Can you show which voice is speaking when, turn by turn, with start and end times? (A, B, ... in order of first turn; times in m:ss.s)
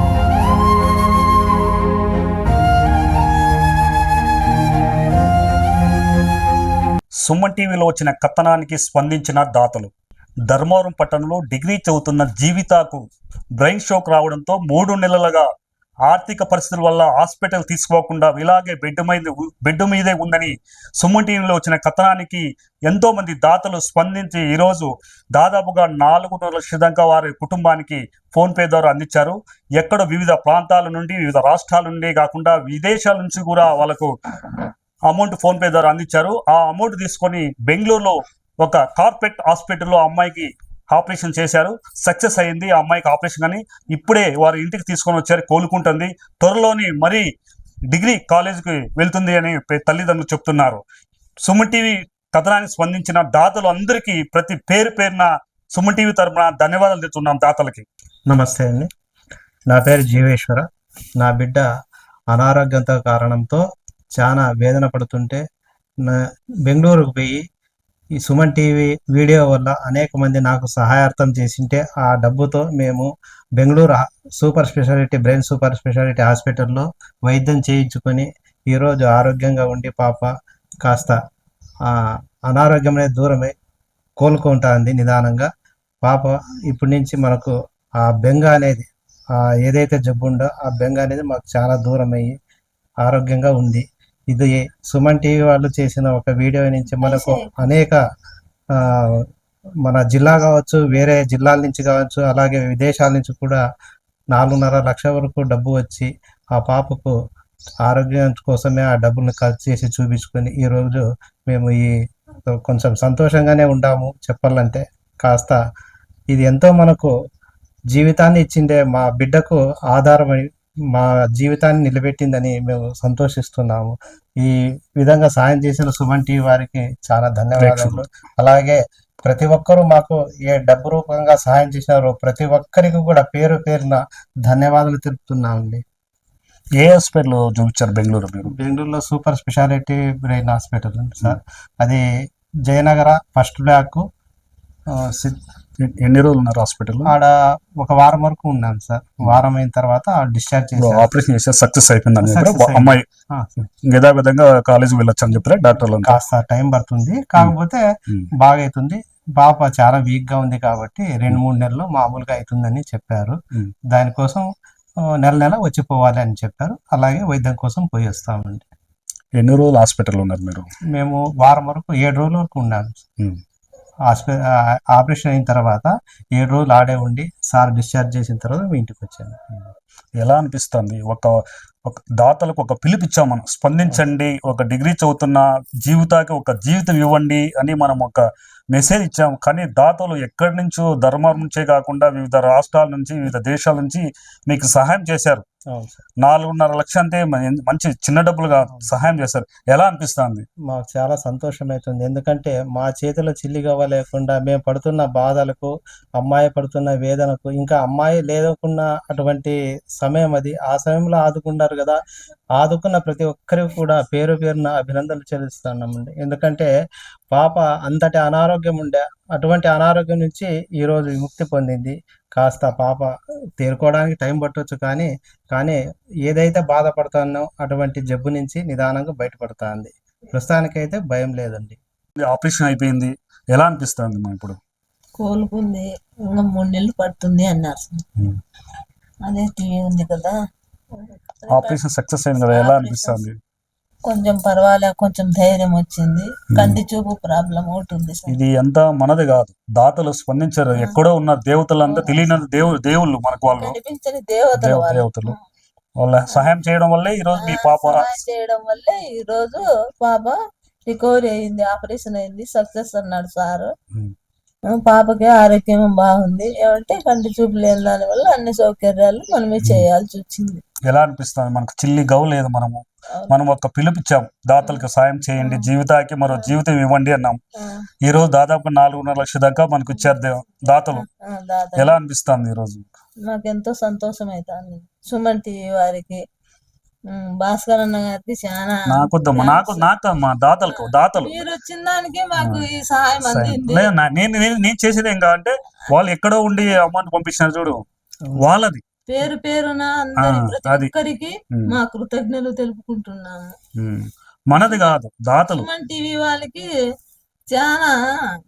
0:07.2-0:09.9 A
0:10.5-0:13.0 A
0:13.6-0:15.5 A
0:16.1-0:34.1 A
0:35.1-0:47.2 A
0:47.9-0:50.8 A
0:51.4-0:57.8 A
0:58.3-0:58.9 B
0:59.7-1:00.6 B
1:01.2-1:01.6 B
1:02.3-1:03.6 B
1:04.2-1:05.4 B
1:06.0-1:07.4 B
1:08.2-1:20.3 B
1:20.8-1:21.2 B
1:22.5-1:23.5 B
1:24.2-1:25.5 B
1:26.0-1:28.9 B
1:29.4-1:32.3 B
1:33.0-1:38.0 B
1:37.0-1:37.7 C
1:39.8-1:43.6 B
1:44.3-1:47.1 B
1:47.8-1:51.9 B
1:52.5-1:55.6 B
1:56.3-1:57.1 B
1:57.9-2:15.8 B
2:07.6-2:08.0 A
2:16.8-2:18.5 A
2:18.4-2:22.0 B
2:22.7-2:24.0 B
2:24.9-2:25.4 B
2:25.8-2:27.1 A
2:27.0-2:31.1 B
2:30.8-2:33.0 A
2:32.2-2:33.5 B
2:33.9-2:36.2 A
2:35.9-2:37.8 B
2:38.4-2:43.4 B
2:43.9-2:44.4 B
2:45.2-2:48.6 B
2:49.4-2:50.7 A
2:50.9-2:53.0 B
2:54.1-2:54.3 B
2:54.9-2:59.4 B
3:00.2-3:01.3 A
3:01.9-3:08.2 A
3:08.7-3:15.4 A
3:15.7-3:16.0 B
3:16.2-3:20.4 A
3:20.7-3:32.0 B
3:32.6-3:36.7 B
3:37.3-3:51.8 B
3:52.2-3:54.6 A
3:55.2-3:58.0 C
3:59.2-4:00.3 C
4:00.9-4:01.8 C
4:01.5-4:03.4 A
4:02.4-4:03.2 C
4:04.0-4:08.4 C
4:08.3-4:13.8 A
4:11.8-4:12.4 C
4:13.5-4:15.4 C
4:14.6-4:15.3 A
4:16.0-4:18.2 A
4:17.4-4:20.3 C
4:20.8-4:23.7 C
4:24.7-4:30.6 C
4:30.9-4:37.4 A
4:35.4-4:35.7 C
4:37.6-4:37.8 C
4:38.0-4:41.0 A
4:39.9-4:40.2 C
4:40.9-4:42.0 C
4:41.8-4:42.8 A
4:43.2-4:46.2 C
4:47.1-4:49.9 C
4:48.9-4:51.4 A
4:50.7-4:53.9 C
4:52.4-4:52.6 A
4:53.2-4:57.8 A
4:58.4-4:58.8 A
4:59.1-5:03.5 C
5:00.2-5:00.9 A
5:03.8-5:05.7 A
5:05.5-5:06.6 C
5:07.5-5:07.9 C